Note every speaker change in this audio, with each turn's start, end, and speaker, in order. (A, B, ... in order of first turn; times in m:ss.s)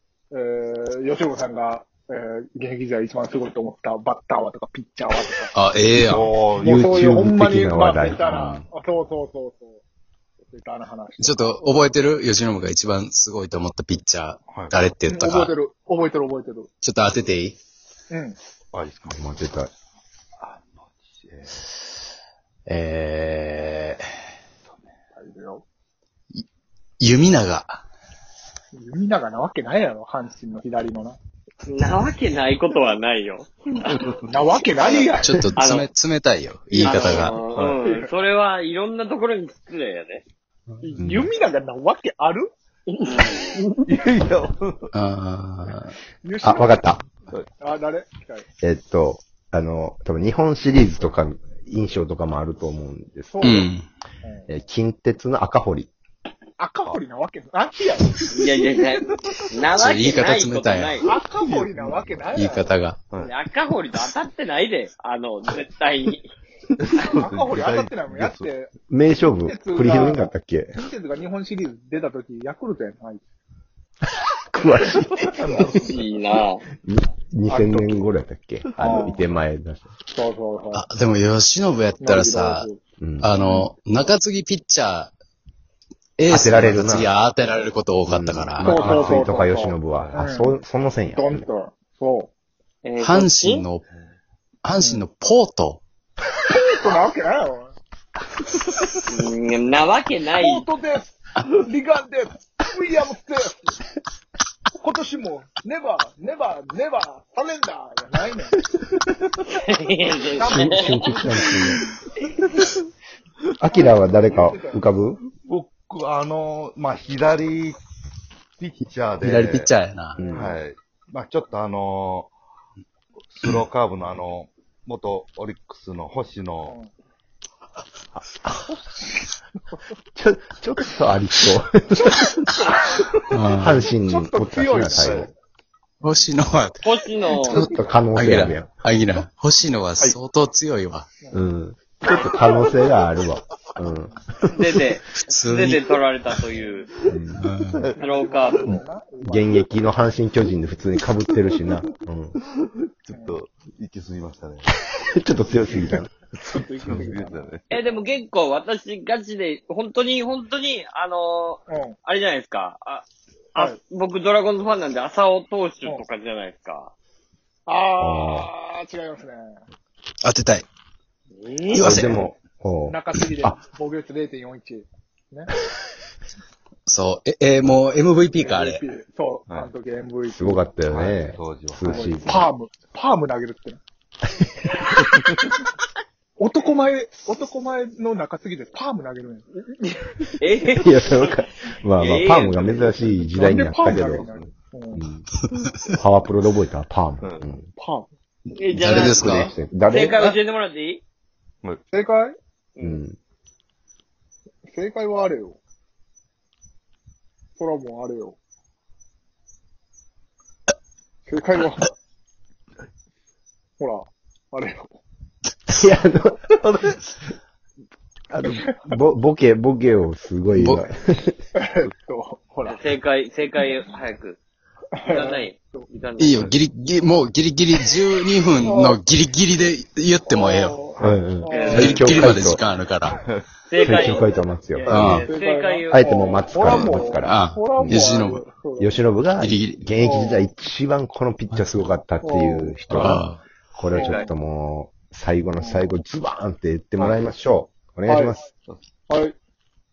0:00.3-0:05.5 A
0:05.5-0:06.3 B
0:06.0-0:07.0 C
0:06.6-0:08.6 D
0:06.6-0:09.8 A
0:08.2-0:08.5 B
0:10.5-0:11.6 A
0:11.2-0:15.5 B
0:15.1-0:16.7 A
0:16.8-0:17.6 B
0:18.1-0:18.4 A
0:18.7-0:19.2 C
0:19.1-0:19.7 D
0:20.4-0:21.5 C
0:22.7-0:24.1 B
0:25.1-0:25.6 A
0:27.0-0:27.8 B
0:28.7-0:31.2 A
0:31.6-0:34.0 E
0:33.9-0:34.2 C
0:34.3-0:35.6 A
0:34.8-0:37.4 B
0:35.6-0:35.9 E
0:36.8-0:40.2 E
0:36.8-0:38.1 A
0:37.5-0:37.8 C
0:40.8-0:42.5 A
0:41.0-0:41.3 D
0:43.0-0:43.8 E
0:43.8-0:44.9 C
0:44.9-0:46.0 B
0:46.2-0:46.8 A
0:46.4-0:47.1 D
0:47.6-0:48.4 A
0:48.6-0:53.6 D
0:53.3-0:53.7 A
0:53.4-0:53.8 B
0:54.2-0:54.5 A
0:54.5-0:55.9 D
0:56.6-0:58.5 A
0:58.3-1:01.0 E
0:58.4-0:59.6 C
0:59.7-1:01.0 B
1:01.0-1:02.7 A
1:01.3-1:02.3 C
1:02.3-1:03.0 B
1:03.1-1:03.4 C
1:03.2-1:06.3 E
1:06.8-1:08.5 C
1:07.1-1:08.7 A
1:08.9-1:10.8 D
1:09.5-1:13.2 A
1:14.2-1:15.6 D
1:15.3-1:16.0 C
1:15.4-1:16.6 E
1:16.8-1:19.8 D
1:17.5-1:18.0 A
1:18.8-1:19.2 A
1:20.1-1:20.8 A
1:20.7-1:22.7 B
1:22.0-1:22.8 A
1:23.0-1:23.3 D
1:23.2-1:25.1 B
1:23.4-1:23.7 A
1:26.2-1:29.1 B
1:26.3-1:27.1 D
1:28.1-1:31.4 D
1:28.6-1:30.6 A
1:31.1-1:32.3 A
1:32.8-1:33.6 E
1:33.0-1:33.8 B
1:34.6-1:35.8 B
1:34.8-1:35.0 A
1:36.5-1:37.8 A
1:39.1-1:40.6 E
1:40.4-1:43.8 A
1:44.8-1:48.6 A
1:49.6-1:51.1 E
1:50.4-1:51.8 A
1:50.4-1:51.8 D
1:53.6-1:55.2 D
1:53.7-1:54.8 A
1:55.4-1:57.8 C
1:58.6-1:59.7 C
1:59.2-2:00.2 B
2:00.2-2:00.5 A
2:00.2-2:00.5 D
2:00.3-2:02.3 C
2:03.3-2:06.7 C
2:06.7-2:06.9 A
2:08.7-2:09.3 A
2:10.2-2:12.4 D
2:12.0-2:13.0 A
2:13.3-2:13.8 B
2:13.5-2:15.3 D
2:13.9-2:15.3 A
2:15.0-2:15.3 C
2:16.0-2:16.9 B
2:16.8-2:17.7 E
2:17.4-2:18.7 D
2:18.1-2:21.1 B
2:21.2-2:21.5 A
2:21.3-2:24.8 D
2:22.4-2:22.9 C
2:24.5-2:26.9 E
2:25.2-2:25.8 B
2:26.6-2:26.8 A
2:27.0-2:28.8 C
2:27.1-2:27.4 D
2:27.4-2:27.8 B
2:28.0-2:29.7 A
2:28.0-2:28.7 E
2:28.6-2:32.4 D
2:32.4-2:34.7 C
2:33.1-2:33.4 A
2:35.1-2:36.1 D
2:36.4-2:38.0 A
2:36.5-2:37.6 C
2:37.7-2:46.9 E
2:41.7-2:42.0 A
2:47.7-2:49.6 A
2:48.0-2:48.5 D
2:50.2-2:50.6 B
2:51.4-2:52.1 E
2:51.7-2:52.2 B
2:51.7-2:53.6 D
2:52.9-2:55.5 A
2:56.8-2:58.8 B
2:58.4-3:00.6 A
3:00.3-3:02.4 D
3:00.9-3:02.1 C
3:01.9-3:03.8 A
3:06.4-3:09.5 A
3:09.6-3:11.4 E
3:10.7-3:14.3 D
3:12.0-3:12.9 E
3:13.3-3:15.0 A
3:14.1-3:14.5 C
3:14.9-3:15.2 D
3:15.5-3:16.0 B
3:15.9-3:17.7 D
3:17.2-3:17.5 C
3:17.8-3:18.1 A
3:18.6-3:21.0 E
3:18.7-3:19.5 B
3:18.8-3:20.3 D
3:21.9-3:22.4 A
3:22.8-3:23.0 E
3:22.8-3:23.2 D
3:24.7-3:25.6 A
3:27.6-3:28.4 A
3:31.3-3:31.9 A
3:33.8-3:35.0 A
3:35.7-3:37.2 D
3:38.3-3:41.4 D
3:38.6-3:38.8 A
3:40.5-3:40.8 B
3:41.5-3:43.0 A
3:42.6-3:44.4 E
3:44.9-3:45.9 A
3:45.1-3:46.4 E
3:46.2-3:50.9 B
3:46.3-3:46.6 C
3:48.6-3:49.0 A
3:50.3-3:52.3 A
3:51.0-3:52.6 D
3:51.4-3:52.4 E
3:51.7-3:53.2 B
3:53.7-3:56.5 E
3:53.8-3:55.2 D
3:53.9-3:54.2 A
3:54.9-3:59.0 A
3:54.9-3:55.3 B
3:55.9-3:58.1 D
3:56.7-3:57.0 C
3:56.8-3:58.4 B
3:58.8-4:08.4 D
3:59.4-3:59.8 B
4:00.0-4:00.5 A
4:01.5-4:01.9 B
4:02.2-4:03.1 A
4:02.9-4:03.4 B
4:03.9-4:04.3 A
4:04.0-4:04.3 E
4:05.6-4:06.0 A
4:08.1-4:08.4 A
4:09.1-4:09.3 A